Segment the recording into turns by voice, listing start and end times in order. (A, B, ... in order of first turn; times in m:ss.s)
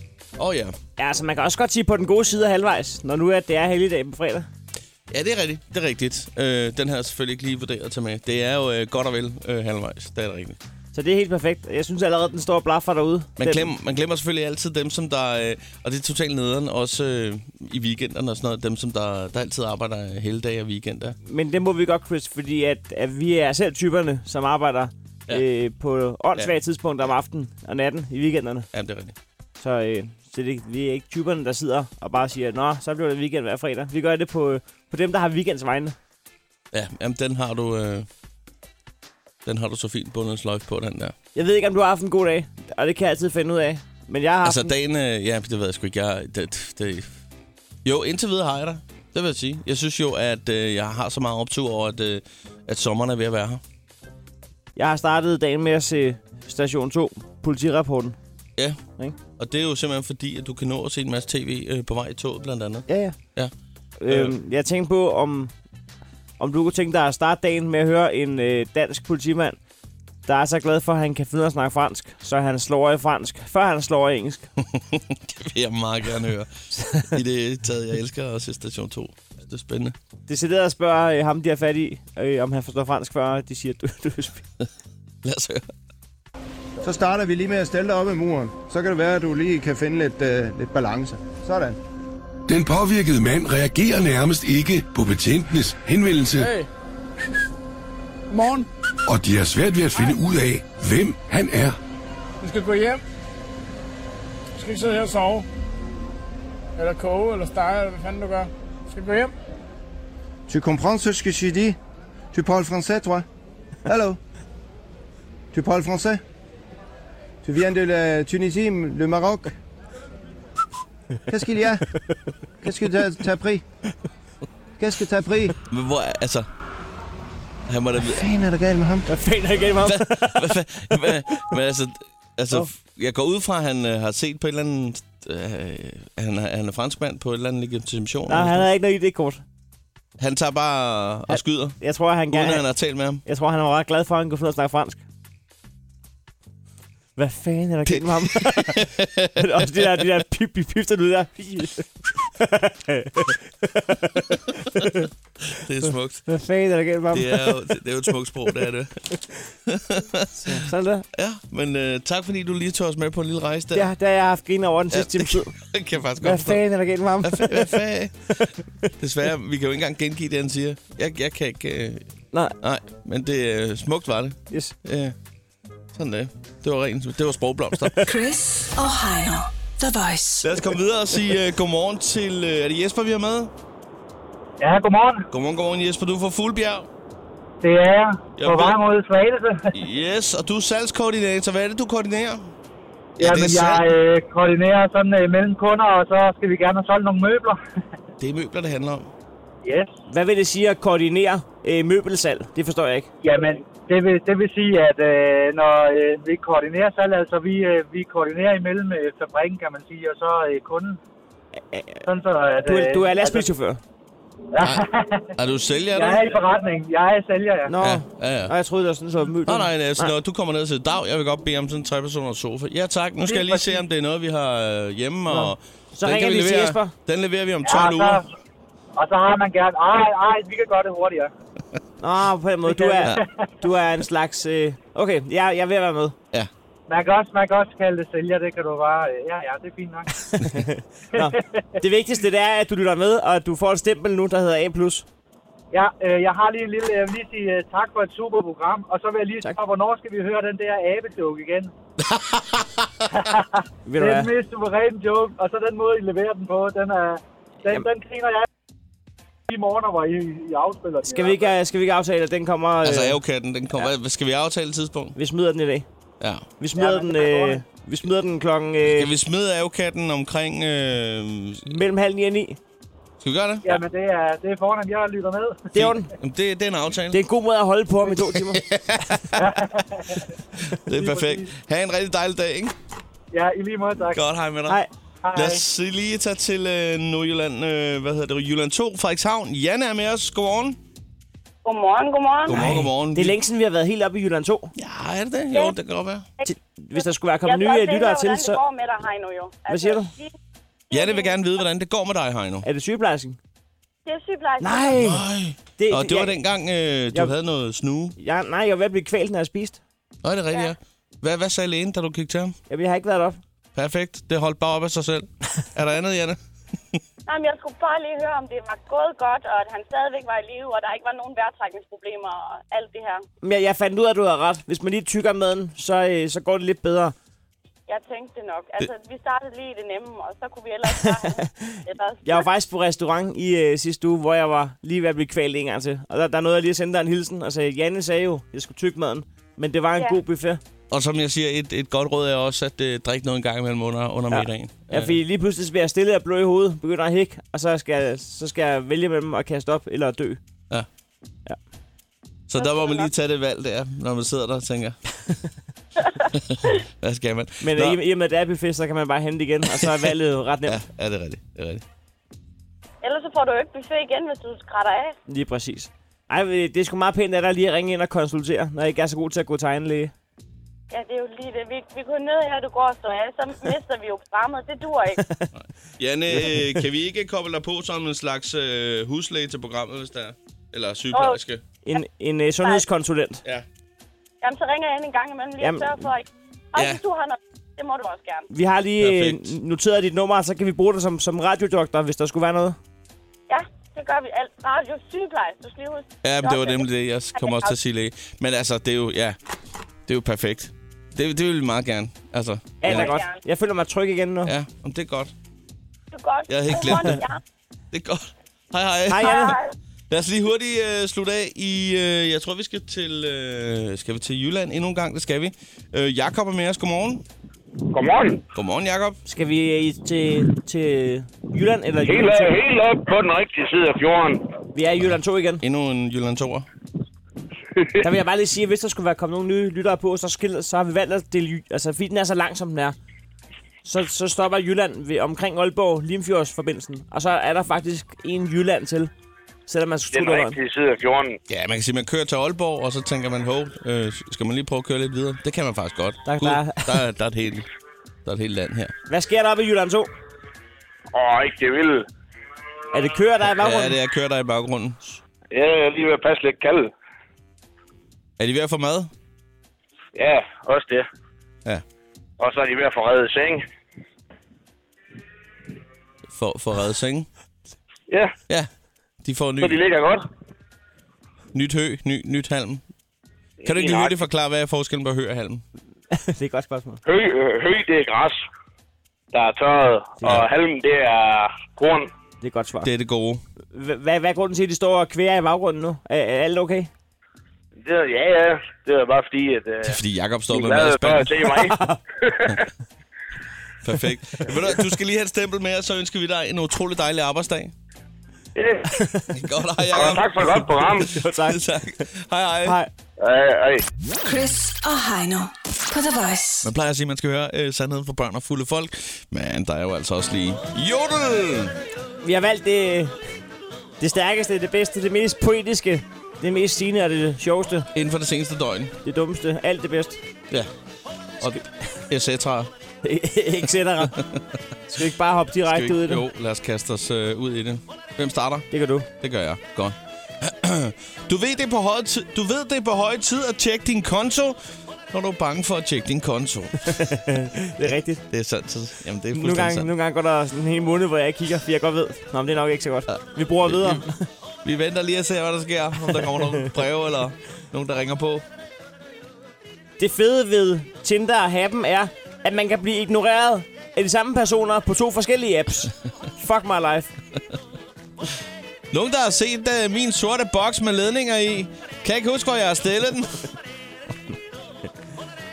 0:00.4-0:00.8 A
0:01.0-0:04.5 B
0:05.1-0:10.6 A
0:10.9-0:13.7 B
0:13.4-0:21.2 A
0:21.3-0:28.7 B
0:28.7-0:29.2 A
0:29.6-0:36.0 B
0:36.7-0:38.1 A
0:39.4-0:41.2 A
0:41.4-0:44.7 B
0:44.4-0:47.1 A
0:47.8-0:53.6 A
0:54.8-0:58.2 B
0:59.4-1:03.5 A
1:02.9-1:03.2 B
1:04.0-1:05.5 B
1:04.1-1:04.3 A
1:06.4-1:09.6 B
1:10.3-1:14.5 B
1:14.8-1:20.0 A
1:20.3-1:24.4 B
1:25.2-1:25.7 A
1:26.8-1:31.8 C
1:32.5-1:36.5 D
1:36.4-1:36.7 E
1:38.3-1:38.7 E
1:39.1-1:41.8 D
1:42.4-1:43.0 E
1:44.6-1:45.5 E
1:46.8-1:49.3 E
1:50.5-1:51.8 C
1:52.3-1:53.2 C
1:53.9-1:54.2 C
1:55.5-1:56.2 C
1:57.4-1:59.5 C
2:01.3-2:02.0 C
2:02.6-2:03.6 C
2:04.8-2:05.6 C
2:05.7-2:06.5 A
2:07.7-2:08.2 A
2:08.1-2:09.1 C
2:09.1-2:11.4 B
2:09.8-2:18.7 A
2:18.3-2:19.4 B
2:20.2-2:21.8 A
2:21.3-2:22.6 B
2:22.3-2:23.2 A
2:23.2-2:25.0 B
2:27.2-2:28.8 B
2:27.9-2:29.3 A
2:29.4-2:35.1 B
2:35.5-2:36.3 A
2:36.3-2:37.6 B
2:37.1-2:38.9 A
2:39.7-2:40.6 A
2:40.4-2:41.0 B
2:41.2-2:43.9 A
2:43.7-2:45.5 B
2:44.9-2:46.6 A
2:46.2-2:47.8 B
2:47.2-2:52.0 A
2:52.6-2:55.2 A
2:54.5-2:54.8 B
2:55.9-2:58.0 A
2:58.0-3:00.5 F
3:00.4-3:03.5 A
3:04.6-3:05.3 G
3:05.3-3:06.9 A
3:07.6-3:09.8 G
3:08.4-3:08.8 A
3:09.8-3:12.5 A
3:13.2-3:13.9 A
3:13.2-3:17.6 G
3:18.2-3:19.1 A
3:19.6-3:19.9 G
3:20.1-3:23.1 B
3:23.2-3:31.0 G
3:31.7-3:32.0 B
3:32.1-3:33.5 G
3:32.7-3:33.8 B
3:34.5-3:35.3 G
3:35.4-3:36.4 A
3:35.9-3:37.7 G
3:37.7-3:40.1 B
3:37.8-3:38.5 A
3:39.4-3:48.2 A
3:43.3-3:43.8 G
3:45.3-3:46.9 B
3:47.6-3:48.3 G
3:49.0-3:51.3 G
3:52.0-3:56.2 B
3:52.7-3:53.4 G
3:56.9-4:00.4 G
4:00.3-4:05.1 B
4:01.2-4:01.6 G
4:05.7-4:11.7 G
4:12.0-4:12.6 A
4:13.2-4:18.5 G
4:13.9-4:14.3 B
4:19.5-4:21.5 G
4:21.1-4:23.2 B
4:22.8-4:25.2 A
4:25.2-4:25.9 B
4:26.2-4:26.4 A
4:26.6-4:29.1 B
4:26.8-4:27.6 G
4:28.8-4:31.7 A
4:31.7-4:32.6 B
4:33.2-4:33.8 A
4:33.6-4:35.7 G
4:35.7-4:36.1 B
4:35.8-4:37.2 A
4:37.1-4:38.6 B
4:38.4-4:39.4 A
4:39.4-4:40.2 G
4:40.7-4:42.7 A
4:40.9-4:41.5 G
4:43.3-4:44.2 G
4:44.1-4:44.8 A
4:45.2-4:45.6 G
4:45.4-4:50.8 A
4:51.6-4:52.6 H
4:52.5-4:53.4 A
4:52.5-4:54.7 B
4:54.8-4:56.3 A
4:55.5-4:55.8 H
4:56.4-5:00.3 H
4:56.4-4:58.6 B
4:59.7-5:00.1 B
5:00.9-5:01.5 H
5:00.9-5:02.7 A
5:02.6-5:03.4 B
5:04.1-5:05.0 H
5:04.6-5:05.2 B
5:05.0-5:08.2 A
5:05.8-5:06.4 B
5:08.2-5:09.8 B
5:10.2-5:12.6 A
5:12.7-5:13.4 B
5:13.8-5:16.4 A
5:17.3-5:23.2 H
5:23.4-5:27.2 B
5:27.9-5:32.5 H
5:30.9-5:40.6 B
5:40.9-5:45.2 A
5:44.3-5:50.4 B
5:52.5-5:55.0 A
5:52.6-5:53.1 H
5:56.3-5:58.0 A
5:57.6-6:00.8 B
6:00.7-6:01.8 A
6:03.0-6:05.2 H
6:05.3-6:10.1 B
6:10.9-6:15.2 H
6:15.2-6:15.5 B
6:15.5-6:21.6 A
6:16.3-6:16.8 B
6:21.1-6:21.4 H
6:21.8-6:23.4 B
6:24.4-6:28.5 H
6:25.6-6:26.1 B
6:28.5-6:32.8 B
6:29.0-6:29.5 A
6:33.5-6:37.8 H
6:36.2-6:39.4 A
6:40.1-6:43.1 A
6:42.8-6:44.5 B
6:42.8-6:43.4 H
6:44.4-6:45.3 A
6:46.1-6:47.4 H
6:46.5-6:47.3 A
6:47.9-6:49.5 A
6:49.1-6:49.6 B
6:49.2-6:49.7 H
6:50.1-6:57.2 A
6:57.9-6:58.4 I
6:58.5-6:59.2 A
6:59.3-7:02.6 B
7:02.0-7:04.5 I
7:04.8-7:05.6 B
7:05.6-7:06.7 A
7:08.0-7:13.0 B
7:13.8-7:19.1 B
7:19.7-7:20.6 B
7:20.1-7:21.4 I
7:21.5-7:27.7 A
7:26.3-7:27.0 B
7:28.2-7:28.9 A
7:29.1-7:30.1 B
7:31.1-7:32.0 I
7:32.9-7:34.0 B
7:33.6-7:35.0 A
7:35.5-7:36.9 I
7:38.4-7:39.1 A
7:40.2-7:41.1 I
7:42.4-7:43.6 I
7:46.3-7:47.3 A
7:48.1-7:48.3 I
7:49.2-7:49.8 A
7:49.6-7:50.2 I
7:51.5-7:52.8 A
7:53.6-7:54.2 I
7:53.6-7:55.6 A
7:56.1-7:57.0 B
7:57.0-7:58.4 I
7:59.3-8:02.1 I
8:02.4-8:02.9 B
8:02.8-8:03.4 A
8:03.7-8:06.9 B
8:07.8-8:10.0 I
8:09.8-8:11.4 A
8:10.5-8:12.6 I
8:11.7-8:12.0 B
8:13.8-8:17.7 A
8:18.9-8:19.3 B
8:19.3-8:22.8 A
8:19.9-8:21.1 I
8:21.1-8:21.6 B
8:22.6-8:22.9 B
8:23.2-8:23.8 I
8:24.2-8:26.7 F
8:26.6-8:31.7 A
8:32.2-8:33.2 B
8:34.0-8:37.9 B
8:37.9-8:38.9 A
8:39.0-8:40.2 B
8:41.4-8:41.7 B
8:41.4-8:42.7 A
8:43.0-8:44.2 B
8:44.9-8:46.2 B
8:45.7-8:54.6 A
8:48.7-8:49.1 B
8:55.1-8:57.1 A
8:57.0-8:58.2 B
8:58.3-8:59.9 A
8:59.3-9:04.3 B
9:03.1-9:04.0 A
9:04.6-9:08.4 A
9:10.0-9:17.1 B
9:18.9-9:23.5 A